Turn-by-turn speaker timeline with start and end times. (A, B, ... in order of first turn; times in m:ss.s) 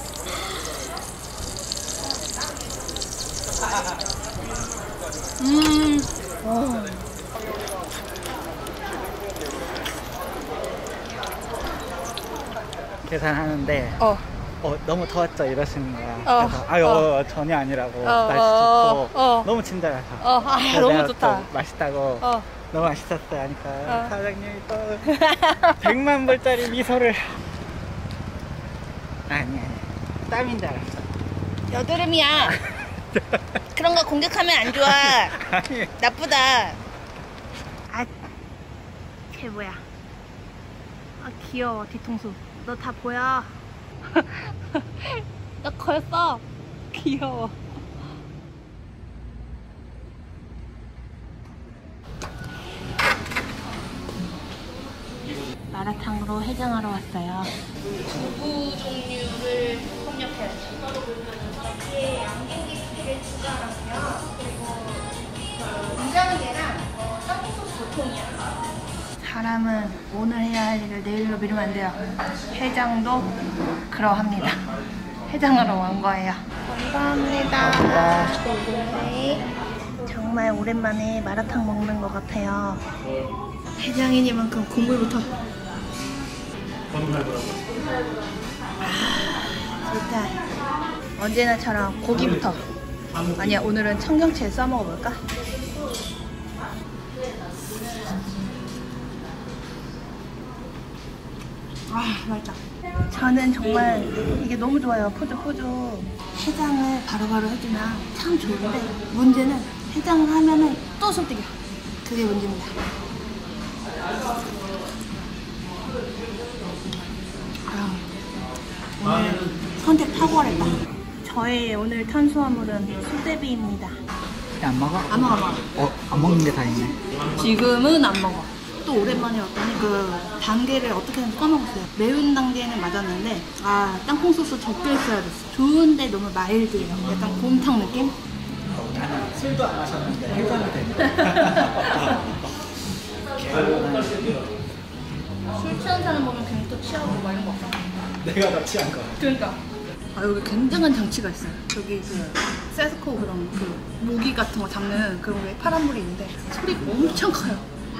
0:05.4-0:07.1 A
0:13.0-0:14.0 B
0:14.0-0:14.3 A
0:14.6-0:27.4 B
0:16.2-0:17.0 A
0:18.0-0:19.5 A
0:20.2-0:21.5 A
0:22.2-0:22.5 A
0:23.8-0:24.1 A
0:25.0-0:25.8 A
0:29.3-0:31.0 B
0:31.7-0:32.6 A
0:33.7-0:36.8 A
0:34.8-0:35.9 B
0:37.9-0:38.1 A
0:39.3-0:39.8 A
0:41.2-0:47.6 A
0:55.7-1:08.6 A
1:09.2-1:14.6 A
1:15.3-1:19.4 A
1:17.7-1:18.4 B
1:20.0-1:22.8 A
1:23.8-1:25.3 A
1:28.8-1:30.4 A
1:31.2-1:32.7 A
1:33.3-1:35.2 A
1:41.9-1:52.8 A
1:57.6-1:58.1 A
1:59.0-2:04.0 A
2:04.6-2:07.0 B
2:05.1-2:05.6 A
2:07.3-2:18.1 A
2:18.7-2:22.5 B
2:21.0-2:22.2 A
2:23.4-2:24.4 B
2:25.5-2:27.8 A
2:28.2-2:29.2 B
2:29.2-2:29.6 A
2:30.1-2:37.6 A